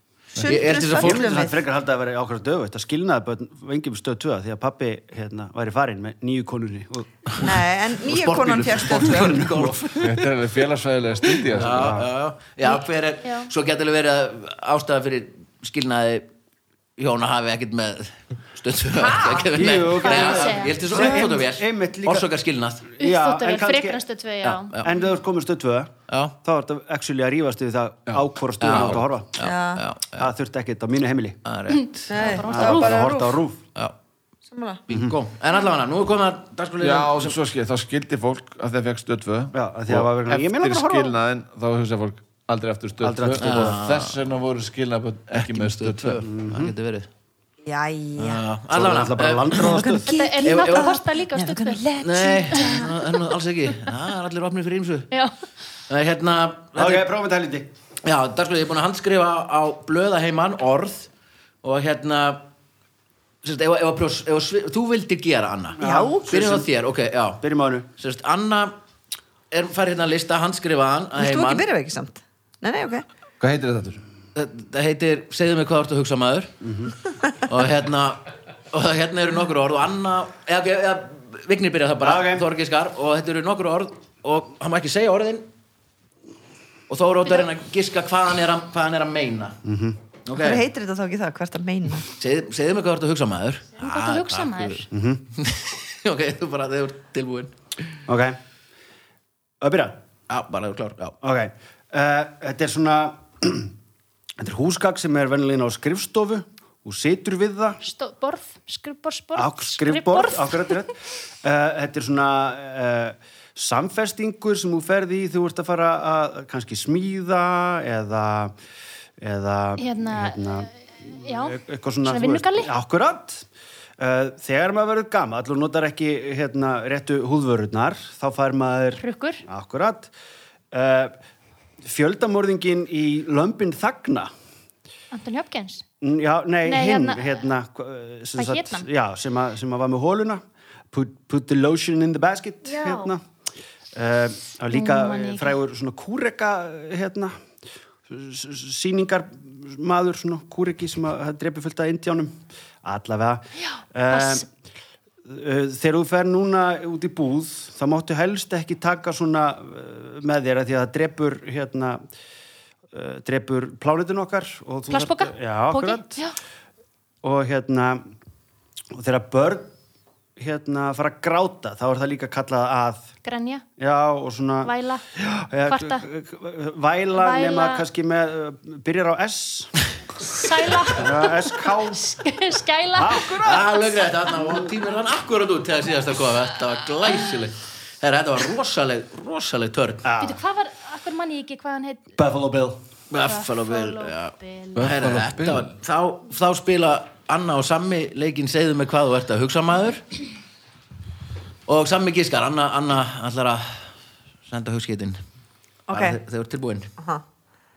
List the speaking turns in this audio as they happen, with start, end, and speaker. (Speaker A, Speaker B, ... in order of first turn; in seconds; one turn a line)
Speaker A: 0.3-1.6
Speaker B: 0.4-1.4
Speaker C: 0.7-7.4
Speaker A: 7.4-9.5
Speaker B: 8.0-10.3
Speaker C: 8.9-9.9
Speaker D: 9.9-12.0
Speaker B: 11.5-16.3
Speaker C: 11.5-12.1
Speaker E: 12.6-13.5
Speaker B: 17.0-22.9
Speaker E: 19.2-21.2
Speaker C: 19.4-22.3
Speaker C: 23.0-24.0
Speaker E: 23.0-24.8
Speaker B: 24.4-24.9
Speaker C: 24.8-29.3
Speaker B: 26.1-26.4
Speaker D: 28.1-29.0
Speaker B: 28.6-30.3
Speaker A: 29.4-29.8
Speaker C: 30.2-31.4
Speaker B: 31.4-32.6
Speaker A: 32.1-33.3
Speaker E: 32.1-33.2
Speaker C: 32.4-33.6
Speaker A: 34.5-34.8
Speaker B: 34.9-37.4
Speaker C: 34.9-35.1
Speaker D: 36.8-46.2
Speaker C: 39.5-41.1
Speaker C: 43.0-43.8
Speaker B: 43.4-44.2
Speaker B: 45.3-47.1
Speaker C: 46.2-46.7
Speaker A: 47.6-48.4
Speaker B: 48.2-49.9
Speaker C: 48.7-50.1
Speaker A: 49.5-52.9
Speaker E: 50.1-52.0
Speaker B: 50.4-51.0
Speaker B: 52.0-55.1
Speaker E: 52.5-52.9
Speaker E: 55.1-55.4
Speaker B: 55.9-57.1
Speaker C: 56.8-57.7
Speaker B: 58.0-61.1
Speaker B: 61.6-62.5
Speaker B: 63.4-67.4
Speaker C: 65.8-66.7
Speaker A: 65.8-66.3
Speaker C: 67.4-67.9
Speaker B: 68.0-68.8
Speaker B: 69.5-71.6
Speaker A: 71.2-73.0
Speaker D: 73.4-74.0
Speaker B: 74.3-76.5
Speaker C: 76.6-76.9
Speaker B: 77.5-85.5
Speaker C: 82.0-82.4
Speaker B: 86.9-89.6
Speaker C: 89.7-90.0
Speaker B: 90.2-90.6
Speaker A: 90.3-92.1
Speaker B: 92.1-94.8
Speaker E: 93.8-94.9
Speaker C: 94.9-95.2
Speaker B: 95.3-97.5
Speaker C: 98.1-98.4
Speaker C: 99.6-100.0
Speaker B: 100.3-101.2
Speaker C: 101.2-103.7
Speaker C: 104.4-107.8
Speaker E: 107.8-110.9
Speaker C: 109.3-118.5
Speaker C: 119.2-120.7
Speaker E: 119.8-120.6
Speaker E: 121.1-122.7
Speaker C: 121.3-123.5
Speaker C: 124.0-130.1
Speaker E: 129.0-129.4
Speaker C: 130.7-131.1
Speaker C: 131.8-134.3
Speaker E: 135.1-135.8
Speaker C: 136.0-143.2
Speaker E: 136.6-137.4
Speaker E: 138.3-138.9
Speaker C: 143.9-147.3
Speaker E: 144.7-145.6
Speaker C: 148.1-154.4
Speaker E: 153.6-154.4
Speaker C: 155.2-162.0
Speaker C: 162.9-166.2
Speaker E: 164.9-166.3
Speaker C: 167.2-168.0
Speaker C: 168.9-169.7
Speaker C: 170.4-173.1
Speaker E: 173.2-173.6
Speaker C: 173.8-179.8
Speaker E: 174.6-175.0
Speaker E: 175.7-176.1
Speaker E: 177.1-177.8
Speaker E: 180.2-183.4
Speaker C: 180.9-182.0
Speaker C: 182.9-183.8
Speaker B: 183.4-190.1
Speaker C: 190.0-190.4
Speaker E: 190.2-192.1
Speaker C: 192.2-192.8
Speaker B: 193.1-200.0
Speaker E: 193.2-194.8
Speaker D: 194.7-195.7
Speaker B: 201.7-203.9
Speaker B: 204.4-205.2
Speaker A: 205.9-206.2
Speaker B: 205.9-206.9
Speaker A: 207.0-207.2